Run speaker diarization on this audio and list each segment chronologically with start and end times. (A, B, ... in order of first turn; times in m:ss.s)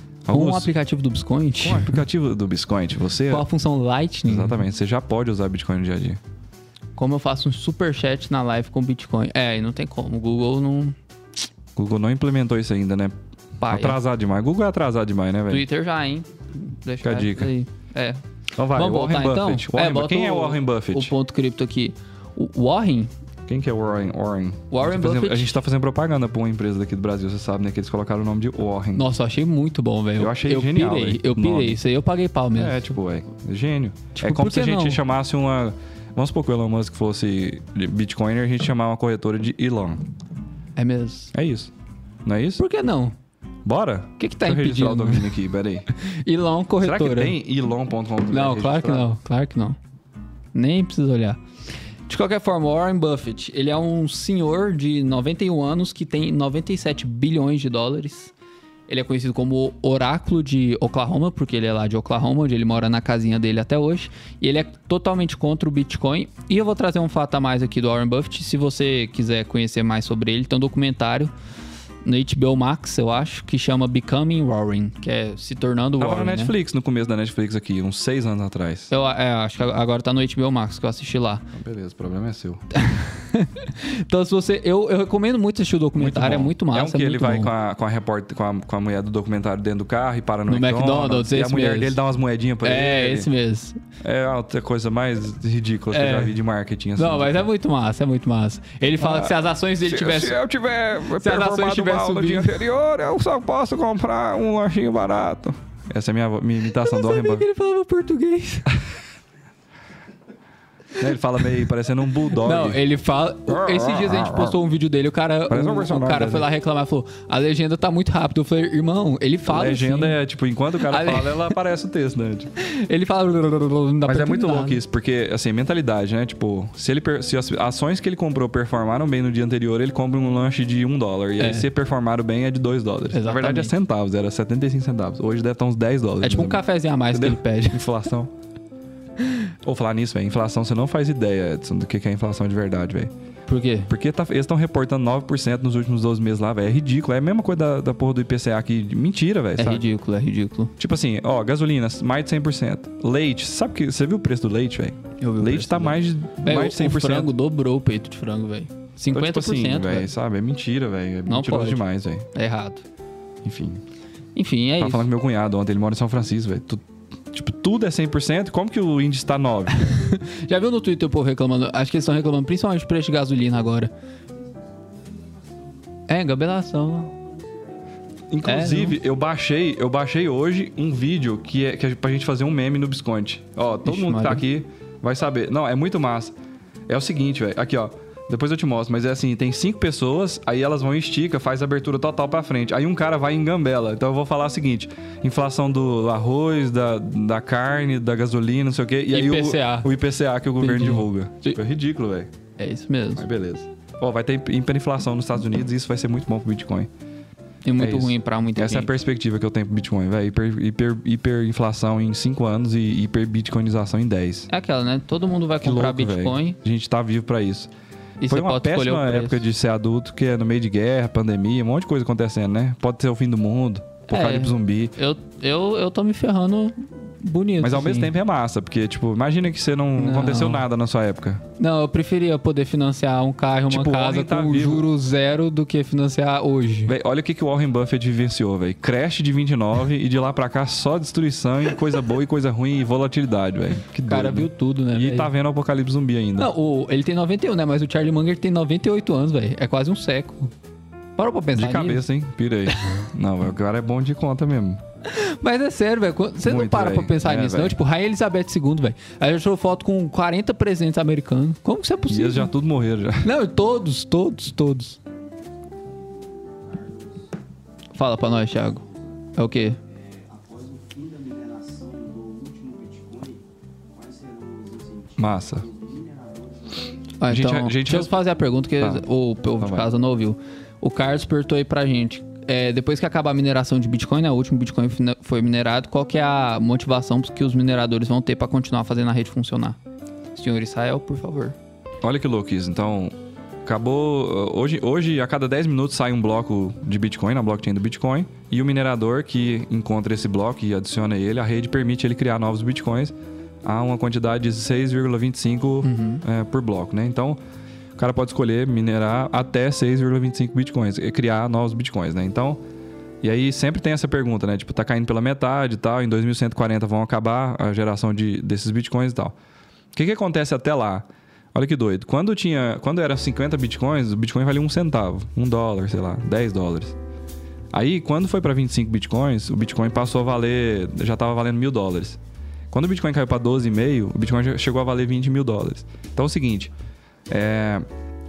0:00.3-0:00.7 A
0:00.3-0:02.0 B
0:01.6-0:03.5 A
0:03.3-0:04.6 B
0:04.3-0:06.2 A
0:07.0-0:11.0 B
0:11.8-0:13.1 A
0:13.6-0:14.0 B
0:13.7-0:15.6 A
0:15.5-0:18.2 B
0:17.0-0:17.5 A
0:18.6-0:21.1 A
0:18.7-0:23.1 B
0:23.5-0:29.0 A
0:24.7-0:25.6 B
0:29.0-0:32.8 B
0:30.2-0:31.8 A
0:32.6-0:40.1 A
0:34.2-0:35.0 B
0:40.8-0:41.3 B
0:41.3-0:41.7 A
0:42.3-0:42.6 A
0:42.6-0:43.2 B
0:43.6-0:45.9 A
0:44.2-0:45.4 B
0:45.9-0:47.4 B
0:46.8-0:49.1 A
0:48.3-0:49.8 B
0:50.5-0:51.4 B
0:52.1-0:58.3 B
0:58.9-1:11.3 B
1:12.0-1:16.5 B
1:16.0-1:18.9 A
1:18.9-1:21.5 B
1:21.5-1:22.6 A
1:22.7-1:27.5 B
1:26.0-1:33.3 A
1:30.5-1:32.0 B
1:32.6-1:33.8 B
1:34.0-1:37.5 A
1:35.9-1:36.4 B
1:37.0-1:40.4 B
1:39.0-1:47.5 A
1:41.2-1:42.6 B
1:46.7-1:48.8 B
1:51.0-1:52.8 A
1:52.3-2:00.2 B
1:53.5-1:54.6 A
1:55.5-1:56.5 A
1:59.5-2:02.5 A
2:00.8-2:01.6 B
2:02.6-2:04.8 B
2:04.0-2:18.3 A
2:11.4-2:11.7 B
2:13.1-2:13.8 B
2:16.2-2:17.8 B
2:19.6-2:23.1 A
2:23.5-2:23.9 B
2:23.9-2:29.8 A
2:29.6-2:30.7 B
2:30.8-2:37.3 A
2:35.2-2:40.1 B
2:39.1-2:42.3 A
2:41.3-2:42.8 B
2:43.4-2:43.8 A
2:44.4-2:45.1 B
2:44.8-2:50.0 A
2:49.7-2:53.9 B
2:54.3-2:58.3 C
2:56.1-2:57.1 B
2:58.3-3:06.4 A
2:58.4-2:59.0 B
3:03.8-3:04.4 B
3:06.9-3:22.3 A
3:19.1-3:19.9 B
3:20.6-3:21.6 B
3:22.6-3:23.2 B
3:23.2-3:26.9 A
3:27.6-3:28.9 B
3:27.8-3:34.5 A
3:34.5-3:36.6 B
3:35.6-3:37.7 A
3:38.2-3:39.4 B
3:38.3-3:45.0 A
3:44.1-3:48.1 B
3:47.6-3:51.4 A
3:50.0-3:50.7 B
3:51.6-3:56.9 B
3:53.7-3:54.8 A
3:56.9-4:06.5 A
4:04.1-4:05.3 B
4:06.4-4:10.5 B
4:11.2-4:12.1 B
4:11.6-4:14.8 A
4:12.7-4:13.0 B
4:15.0-4:22.5 B
4:16.4-4:17.8 A
4:22.1-4:23.3 A
4:23.2-4:25.0 B
4:25.1-4:27.4 C
4:28.0-4:28.8 B
4:28.3-4:37.2 C
4:29.4-4:29.8 B
4:35.2-4:35.6 A
4:37.2-4:49.8 B
4:37.3-4:38.2 A
4:38.8-4:39.0 A
4:39.6-4:39.9 A
4:50.3-4:51.6 B
4:52.0-5:03.1 A
5:03.6-5:07.4 A
5:05.8-5:06.2 B
5:08.0-5:12.6 A
5:13.2-5:19.4 A
5:19.9-5:27.0 A
5:27.7-5:32.2 A
5:32.7-5:36.7 A
5:37.3-5:37.8 A